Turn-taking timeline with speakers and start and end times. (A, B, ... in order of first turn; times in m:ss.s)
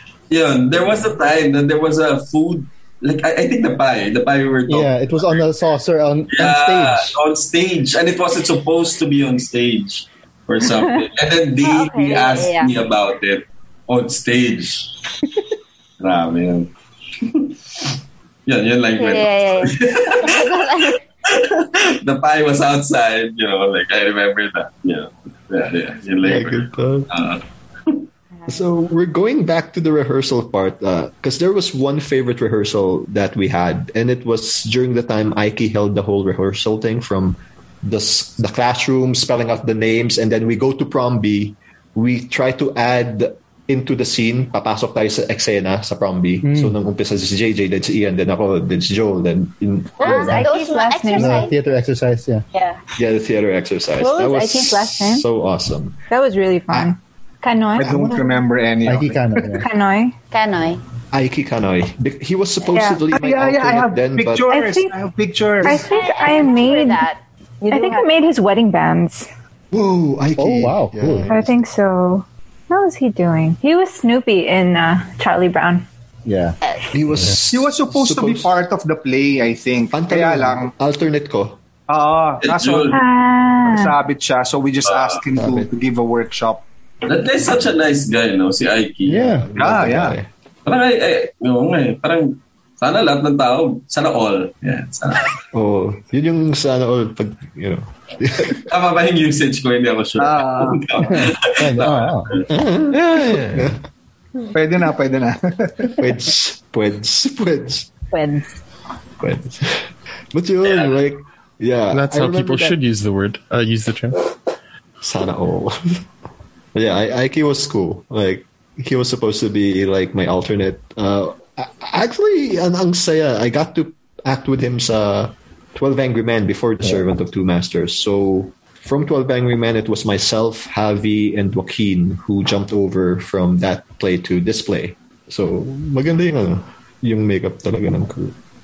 0:00.3-0:05.2 A
0:04.7-0:07.1 B
0:06.3-0:14.9 A
0:11.6-0:12.7 C
0:16.0-0:16.7 A
0:17.2-0:17.9 A
0:18.4-0:20.6 A
0:19.0-0:21.0 C
0:21.2-0:28.0 A
0:26.2-0:27.1 D
0:28.5-0:50.5 D
0:46.4-0:46.8 B
0:50.0-0:51.5 E
0:50.0-0:51.5 C
0:51.1-0:52.4 B
0:53.0-0:56.0 D
0:54.0-0:55.2 E
0:56.1-0:58.3 E
0:56.7-0:56.9 D
0:57.8-0:59.7 F
0:58.8-0:59.6 B
0:59.6-1:00.2 E
1:00.3-1:00.8 C
1:01.1-1:04.4 D
1:02.7-1:03.1 E
1:03.1-1:05.9 F
1:04.5-1:04.9 E
1:05.6-1:07.1 E
1:05.6-1:08.0 C
1:07.7-1:09.3 E
1:09.7-1:11.6 D
1:10.4-1:11.3 B
1:11.3-1:15.8 E
1:16.2-1:16.6 B
1:16.6-1:16.9 C
1:16.9-1:18.5 D
1:17.4-1:20.7 F
1:19.9-1:21.6 D
1:21.9-1:23.0 F
1:22.4-1:23.0 A
1:22.9-1:23.9 E
1:23.6-1:26.6 F
1:24.8-1:25.2 A
1:25.3-1:25.7 D
1:27.0-1:29.3 A
1:29.0-1:29.5 B
1:29.1-1:30.3 D
1:29.6-1:30.2 F
1:30.6-1:35.4 A
1:35.5-1:38.6 D
1:38.7-1:42.5 A
1:40.2-1:41.0 F
1:41.0-1:42.3 B
1:42.5-1:43.8 D
1:42.9-1:43.7 G
1:44.5-1:45.9 F
1:46.0-1:47.9 D
1:49.2-1:52.8 D
1:50.6-1:50.9 A
1:51.9-1:54.2 G
1:55.0-1:56.0 D
1:56.7-2:18.4 D